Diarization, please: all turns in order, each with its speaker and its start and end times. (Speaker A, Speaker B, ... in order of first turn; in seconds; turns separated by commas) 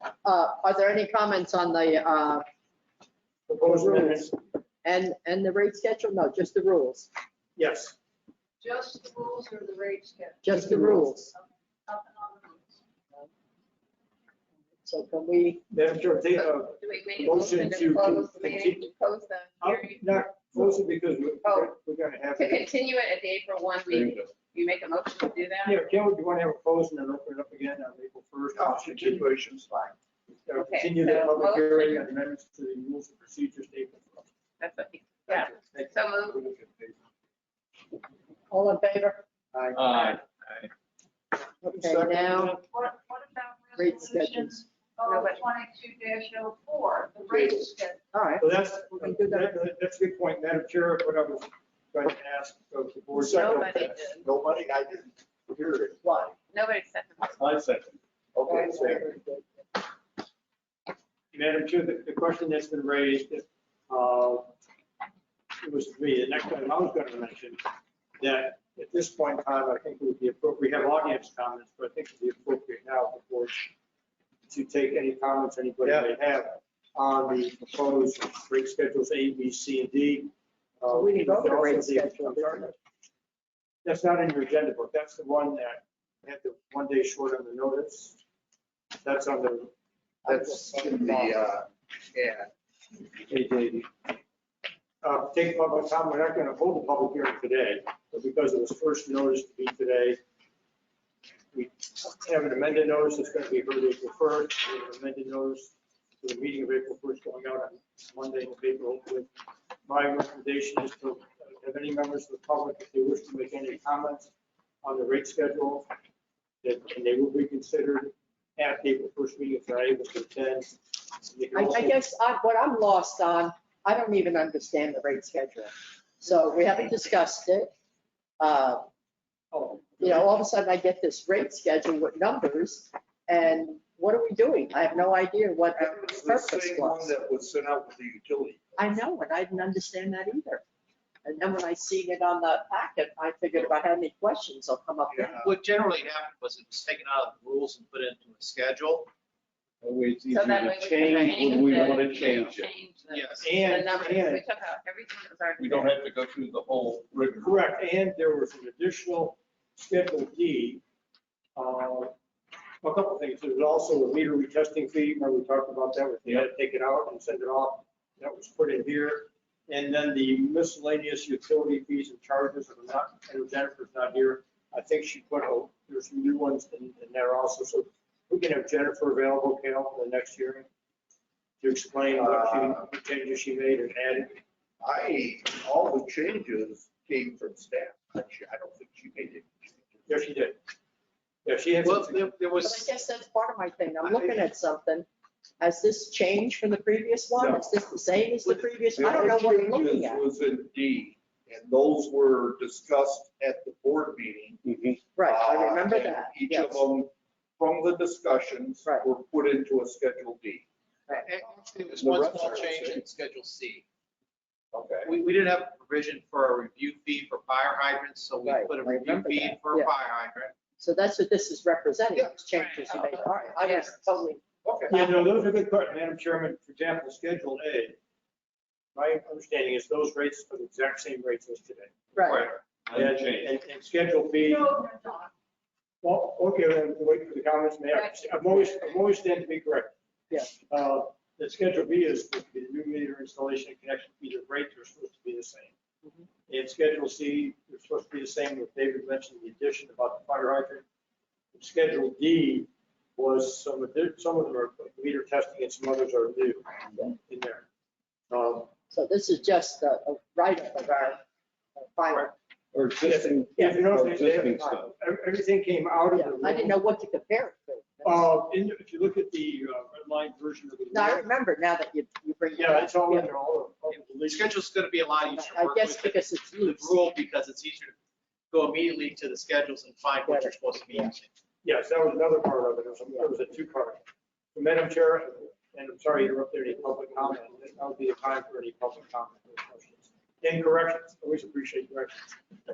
Speaker A: 0.2-2.4, Speaker B: 3.5-4.3, Speaker A: 3.6-4.3, Speaker A: 4.8-7.1, Speaker B: 7.6-8.0, Speaker C: 8.6-12.8, Speaker A: 10.4-11.3, Speaker B: 10.6-11.1, Speaker A: 14.8-15.7, Speaker B: 15.7-18.9, Speaker D: 16.3-20.1, Speaker B: 19.6-22.7, Speaker D: 21.4-21.7, Speaker D: 22.4-25.8, Speaker E: 24.0-24.2, Speaker B: 25.6-29.2, Speaker F: 28.6-29.9, Speaker B: 30.5-34.3, Speaker D: 30.6-32.1, Speaker D: 34.6-36.5, Speaker B: 35.3-36.0, Speaker A: 38.5-39.2, Speaker G: 39.8-40.2, Speaker A: 41.6-42.6, Speaker B: 41.7-42.6, Speaker C: 42.6-48.0, Speaker A: 43.8-44.6, Speaker D: 45.0-45.5, Speaker B: 47.3-47.6, Speaker A: 48.1-49.6, Speaker B: 48.4-54.0, Speaker D: 53.2-54.3, Speaker F: 53.4-56.3, Speaker A: 56.0-56.3, Speaker D: 56.5-57.5, Speaker F: 58.3-59.0, Speaker A: 58.5-59.5, Speaker B: 61.3-64.5, Speaker B: 65.6-67.6, Speaker B: 68.2-73.7, Speaker B: 74.5-82.7, Speaker A: 80.9-82.7, Speaker B: 83.8-88.2, Speaker B: 89.0-89.7, Speaker B: 90.2-91.3, Speaker F: 90.2-92.5, Speaker B: 93.3-93.9, Speaker B: 95.0-100.2, Speaker B: 101.5-109.3, Speaker B: 109.8-114.3, Speaker B: 114.8-115.9, Speaker B: 116.6-122.0, Speaker A: 121.5-127.7, Speaker A: 128.4-128.8, Speaker B: 129.5-130.0, Speaker A: 130.0-137.1, Speaker F: 135.8-139.0, Speaker A: 138.8-140.6, Speaker A: 141.2-145.4, Speaker G: 145.3-149.1, Speaker E: 149.8-152.5, Speaker D: 150.3-156.1, Speaker F: 150.9-152.7, Speaker G: 151.1-152.0, Speaker G: 153.1-153.4, Speaker B: 153.4-154.5, Speaker F: 155.6-157.6, Speaker B: 157.4-160.8, Speaker B: 161.6-162.1, Speaker B: 162.8-180.7, Speaker B: 181.6-184.4, Speaker F: 182.1-182.8, Speaker F: 184.8-190.0, Speaker B: 190.1-190.6, Speaker B: 191.4-192.3, Speaker G: 191.8-192.9, Speaker A: 192.6-195.1, Speaker A: 195.6-200.2, Speaker F: 197.4-197.7, Speaker F: 198.5-210.7, Speaker E: 204.7-205.0, Speaker A: 205.2-206.8, Speaker G: 211.1-213.8, Speaker F: 211.9-213.0, Speaker F: 214.7-215.1, Speaker G: 215.1-220.5, Speaker A: 218.4-219.9, Speaker A: 220.8-225.3, Speaker D: 222.4-223.9, Speaker B: 224.9-228.0, Speaker B: 228.9-234.8, Speaker A: 232.1-232.5, Speaker C: 234.4-235.3, Speaker B: 236.0-239.9, Speaker B: 240.7-245.7, Speaker B: 246.5-250.8, Speaker B: 251.5-257.7, Speaker B: 258.3-258.7, Speaker A: 258.9-261.2, Speaker A: 261.8-262.3, Speaker E: 262.7-264.8, Speaker B: 263.0-266.8, Speaker A: 266.1-268.3, Speaker B: 268.0-271.3, Speaker A: 270.9-273.3, Speaker B: 272.6-274.6, Speaker G: 273.9-277.9, Speaker A: 275.2-277.0, Speaker G: 278.5-281.3, Speaker A: 280.2-281.1, Speaker B: 281.6-292.3